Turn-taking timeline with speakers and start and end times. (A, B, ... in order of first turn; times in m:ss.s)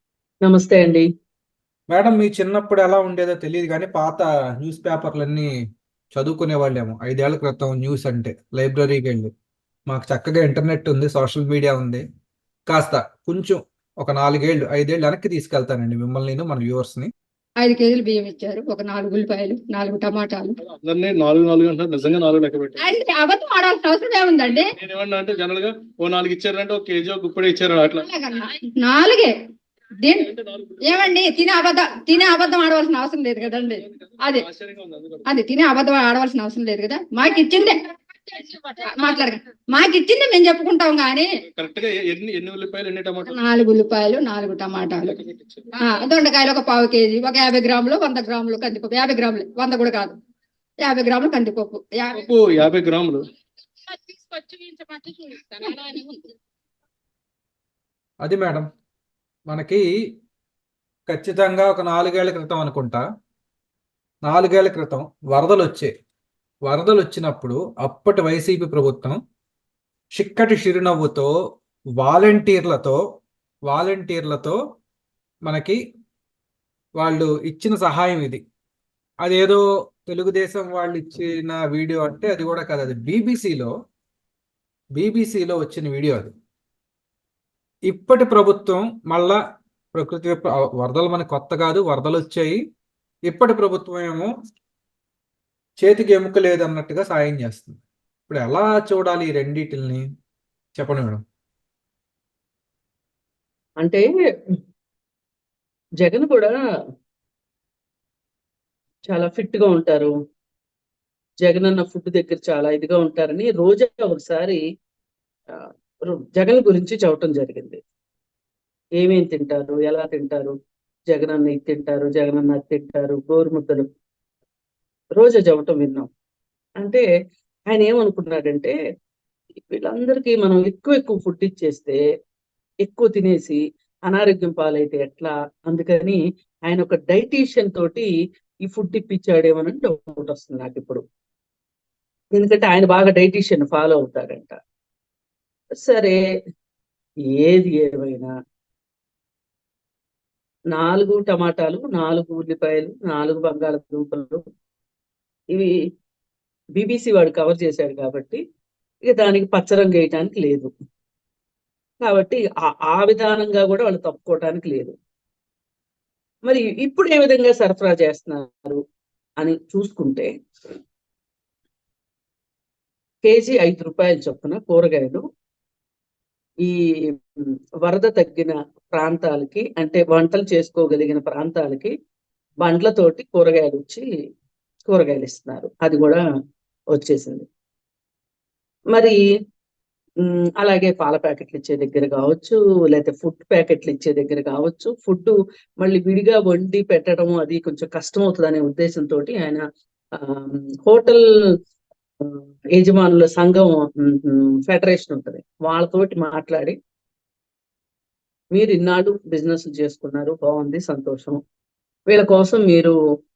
0:00.4-0:01.0 A
0:01.9-0:05.5 B
0:06.1-0:09.3 B
0:09.9-0:12.0 B
0:12.7-0:17.1 B
0:17.6-0:20.6 C
0:20.6-0:22.9 D
0:22.8-0:24.7 C
0:24.4-0:28.1 D
0:28.0-0:29.3 C
0:30.0-0:30.3 C
0:30.3-0:31.1 D
0:30.8-0:34.4 C
0:34.0-0:35.2 D
0:35.3-0:41.3 C
0:41.5-0:43.4 D
0:43.3-0:45.1 C
0:45.0-0:45.7 D
0:45.8-0:50.2 C
0:50.8-0:52.2 C
0:52.1-0:53.3 D
0:53.9-0:56.3 C
0:58.2-0:58.7 B
0:59.5-0:59.8 B
1:01.1-1:03.0 B
1:04.2-1:05.9 B
1:06.6-1:09.2 B
1:10.1-1:11.3 B
1:12.0-1:13.0 B
1:13.7-1:14.6 B
1:15.4-1:15.8 B
1:17.0-1:18.4 B
1:19.2-1:23.7 B
1:24.9-1:26.3 B
1:27.9-1:29.4 B
1:29.9-1:32.6 B
1:33.3-1:34.3 B
1:35.8-1:40.0 B
1:40.8-1:41.2 B
1:46.0-1:46.6 A
1:49.1-1:50.1 A
1:51.4-1:54.6 A
1:55.6-1:57.8 A
1:59.0-2:00.5 A
2:01.1-2:03.8 A
2:05.2-2:06.0 A
2:07.7-2:08.7 A
2:09.7-2:12.0 A
2:12.8-2:18.1 A
2:18.7-2:21.0 A
2:22.3-2:24.5 A
2:25.8-2:26.2 A
2:27.4-2:28.3 A
2:30.7-2:34.4 A
2:36.8-2:38.4 A
2:39.1-2:40.7 A
2:42.0-2:44.9 A
2:46.4-2:48.8 A
2:49.4-2:50.3 A
2:53.2-2:55.2 A
2:56.6-2:57.1 A
2:57.8-3:01.9 A
3:02.6-3:04.0 A
3:04.9-3:06.2 A
3:06.9-3:07.4 A
3:08.9-3:09.2 A
3:10.2-3:19.6 A
3:20.2-3:21.2 A
3:22.2-3:26.8 A
3:28.5-3:31.4 A
3:32.1-3:32.9 A